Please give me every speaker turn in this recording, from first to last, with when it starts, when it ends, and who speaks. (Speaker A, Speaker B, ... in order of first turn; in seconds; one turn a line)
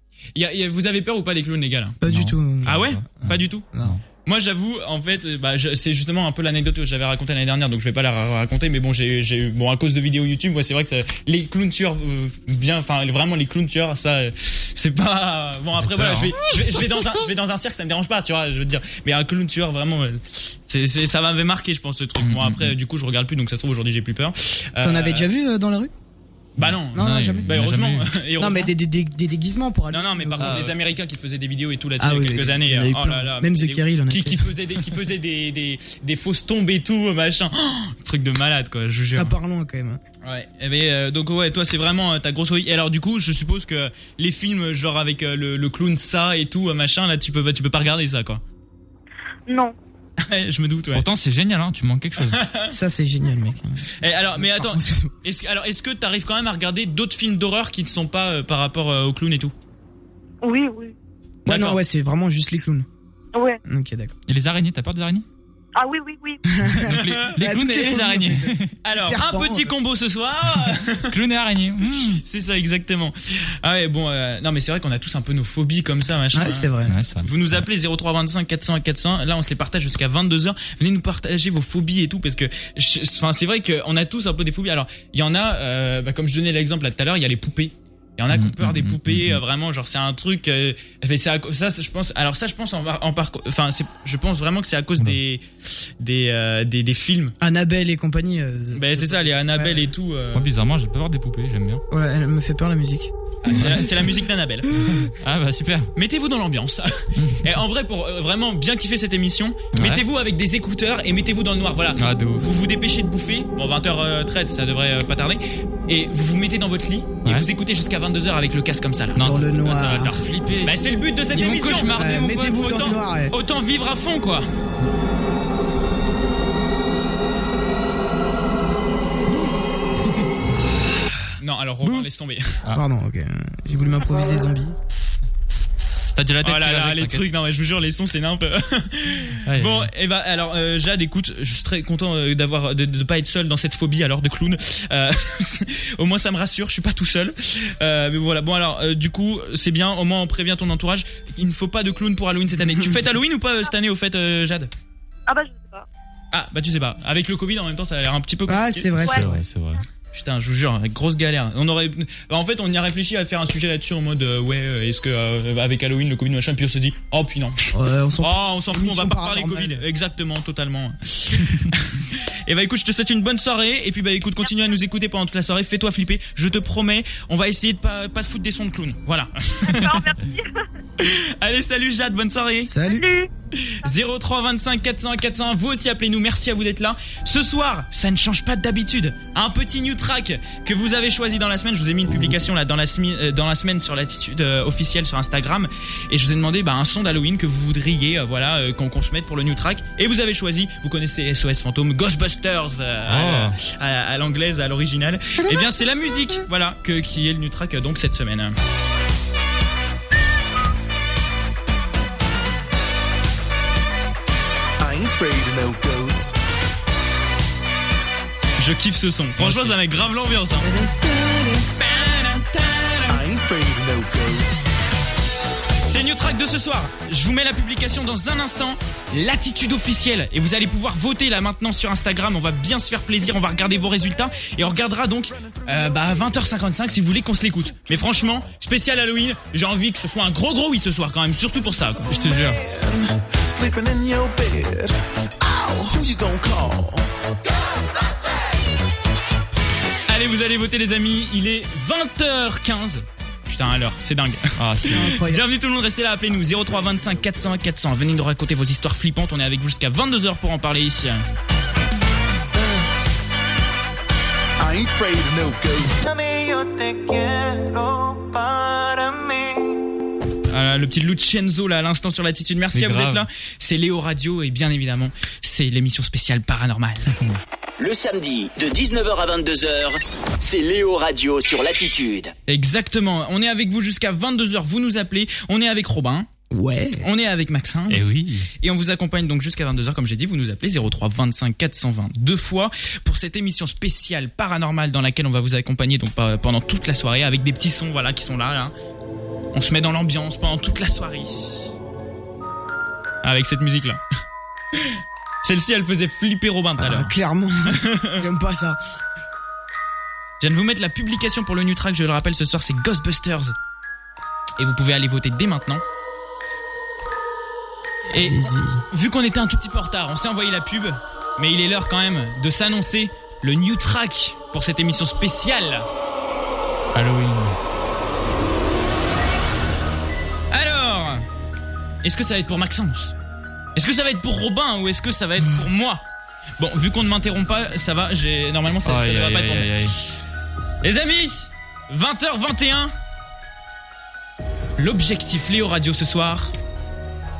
Speaker A: 0.3-2.0
Speaker B: 2.0-4.0
Speaker C: 2.0-4.0
Speaker A: 2.6-3.6
Speaker A: 4.2-25.3
Speaker C: 15.8-16.4
Speaker C: 22.2-22.8
Speaker B: 24.8-25.9
Speaker A: 26.6-28.7
Speaker C: 26.6-28.1
Speaker B: 26.9-27.5
Speaker B: 28.4-30.7
Speaker A: 29.9-39.3
Speaker C: 30.4-30.7
Speaker B: 32.0-34.5
Speaker B: 39.1-40.0
Speaker A: 40.2-48.4
Speaker D: 49.5-49.8
Speaker A: 50.2-51.0
Speaker C: 50.9-52.4
Speaker A: 52.2-52.7
Speaker B: 52.7-55.1
Speaker A: 54.0-59.5
Speaker D: 60.4-61.0
Speaker A: 61.5-61.8
Speaker B: 61.5-62.9
Speaker D: 63.3-63.6
Speaker B: 63.6-64.1
Speaker C: 64.3-65.2
Speaker D: 65.8-66.4
Speaker B: 66.5-69.7
Speaker C: 66.7-68.7
Speaker A: 66.9-67.3
Speaker A: 68.8-71.1
Speaker C: 71.1-72.2
Speaker A: 72.2-76.7
Speaker B: 76.3-77.0
Speaker C: 76.9-77.6
Speaker A: 77.2-95.4
Speaker C: 88.3-89.4
Speaker A: 96.0-97.3
Speaker B: 97.4-99.9
Speaker A: 98.7-100.5
Speaker C: 100.3-101.8
Speaker B: 101.9-103.1
Speaker A: 103.4-104.7
Speaker C: 103.5-103.8
Speaker B: 104.7-105.1
Speaker C: 104.8-105.9
Speaker A: 106.0-122.0
Speaker C: 107.2-107.5
Speaker C: 109.8-110.0
Speaker C: 112.0-112.5
Speaker C: 119.2-122.9
Speaker B: 119.2-120.1
Speaker B: 121.9-123.3
Speaker A: 122.6-124.5
Speaker C: 129.3-129.6
Speaker A: 131.4-132.6
Speaker B: 132.7-134.8
Speaker C: 136.2-137.2
Speaker A: 136.4-154.7
Speaker C: 139.5-139.9
Speaker D: 155.3-155.8
Speaker A: 156.3-158.9
Speaker B: 158.5-159.4
Speaker D: 159.0-159.3
Speaker C: 159.0-159.8
Speaker A: 160.1-180.1
Speaker B: 167.7-169.8
Speaker D: 179.7-180.7
Speaker A: 181.0-182.7
Speaker B: 182.7-183.1
Speaker D: 182.8-183.3
Speaker A: 183.7-208.6
Speaker C: 203.1-203.5
Speaker E: 214.8-216.3
Speaker A: 218.6-220.7
Speaker C: 219.4-219.8
Speaker B: 220.6-221.7
Speaker A: 221.8-223.2
Speaker E: 223.1-224.7
Speaker A: 225.8-242.1
Speaker C: 242.1-242.6
Speaker E: 242.1-247.1
Speaker A: 250.1-261.2
Speaker C: 254.6-255.2
Speaker B: 254.9-255.4
Speaker E: 264.6-269.8
Speaker A: 270.5-277.2
Speaker C: 272.7-273.2
Speaker F: 277.8-282.3
Speaker A: 282.5-286.3
Speaker B: 286.5-287.1
Speaker A: 287.0-298.7
Speaker C: 287.9-288.5
Speaker A: 299.5-301.7
Speaker A: 303.2-304.0
Speaker A: 304.7-307.1
Speaker B: 306.8-308.8
Speaker A: 307.7-308.2
Speaker A: 310.4-313.5
Speaker A: 314.6-315.8
Speaker A: 318.1-325.9
Speaker B: 318.2-318.8
Speaker C: 326.9-327.5
Speaker A: 330.5-331.2
Speaker A: 332.0-333.1
Speaker A: 333.8-336.0
Speaker A: 336.6-339.7
Speaker C: 338.8-339.9
Speaker A: 340.8-342.9
Speaker A: 344.8-346.5